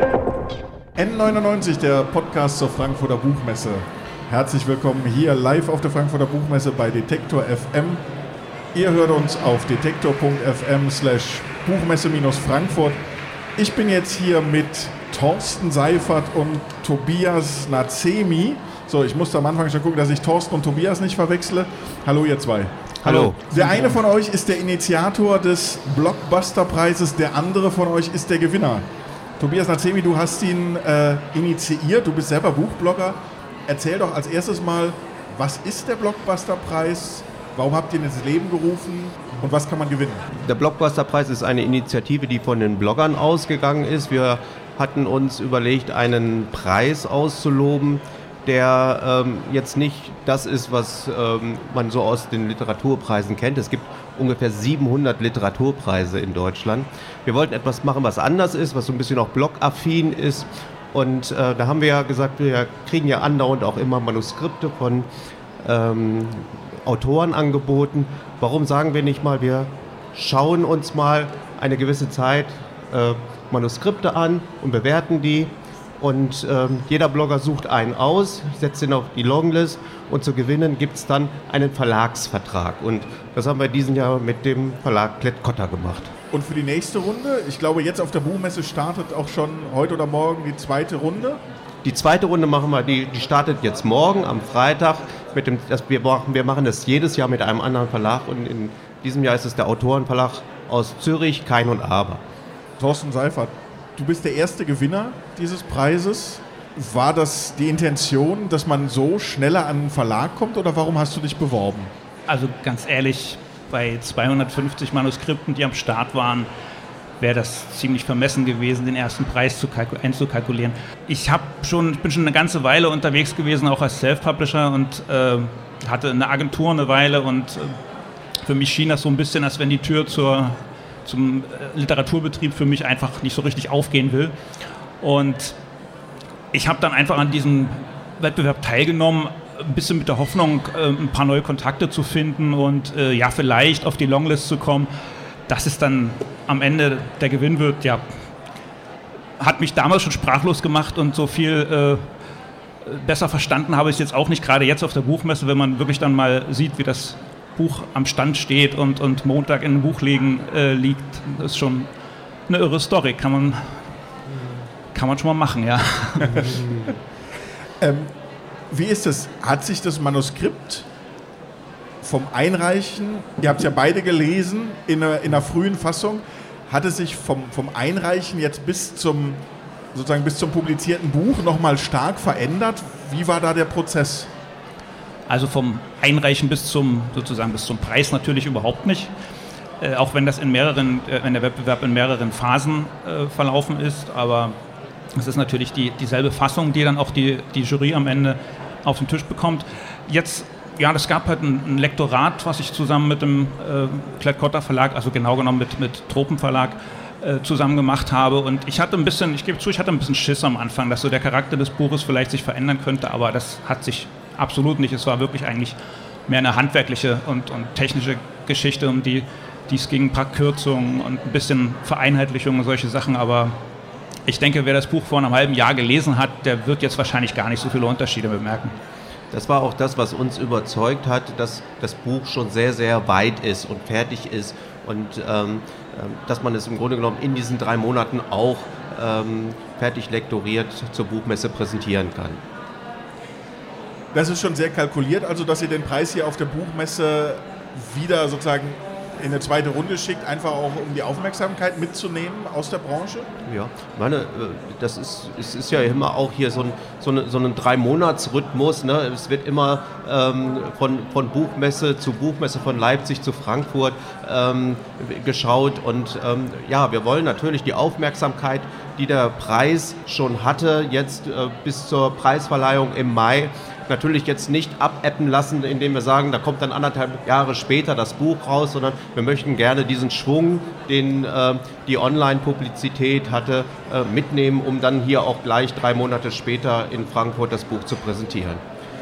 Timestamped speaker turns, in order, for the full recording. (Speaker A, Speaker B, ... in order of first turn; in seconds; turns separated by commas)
Speaker A: 1.0-8.0, Speaker A: 8.7-13.0, Speaker A: 13.6-28.8, Speaker B: 23.0-24.0, Speaker A: 29.4-40.3, Speaker B: 40.4-65.1, Speaker B: 65.6-86.1, Speaker A: 86.3-91.4, Speaker B: 91.8-102.2, Speaker A: 102.8-111.9, Speaker C: 112.3-116.5, Speaker C: 117.2-127.8, Speaker C: 128.4-134.3, Speaker C: 135.0-135.6, Speaker C: 136.5-144.9, Speaker C: 145.5-148.0, Speaker C: 149.4-152.0, Speaker C: 152.8-161.9, Speaker C: 162.5-163.8, Speaker C: 164.9-166.6, Speaker B: 166.4-166.9, Speaker A: 167.8-168.1, Speaker A: 168.7-170.9, Speaker A: 172.0-179.4, Speaker A: 179.9-184.3, Speaker C: 185.3-189.1, Speaker C: 189.8-194.5, Speaker C: 195.2-223.6, Speaker C: 224.2-228.8, Speaker B: 229.3-242.4, Speaker A: 244.1-253.3, Speaker B: 253.4-288.6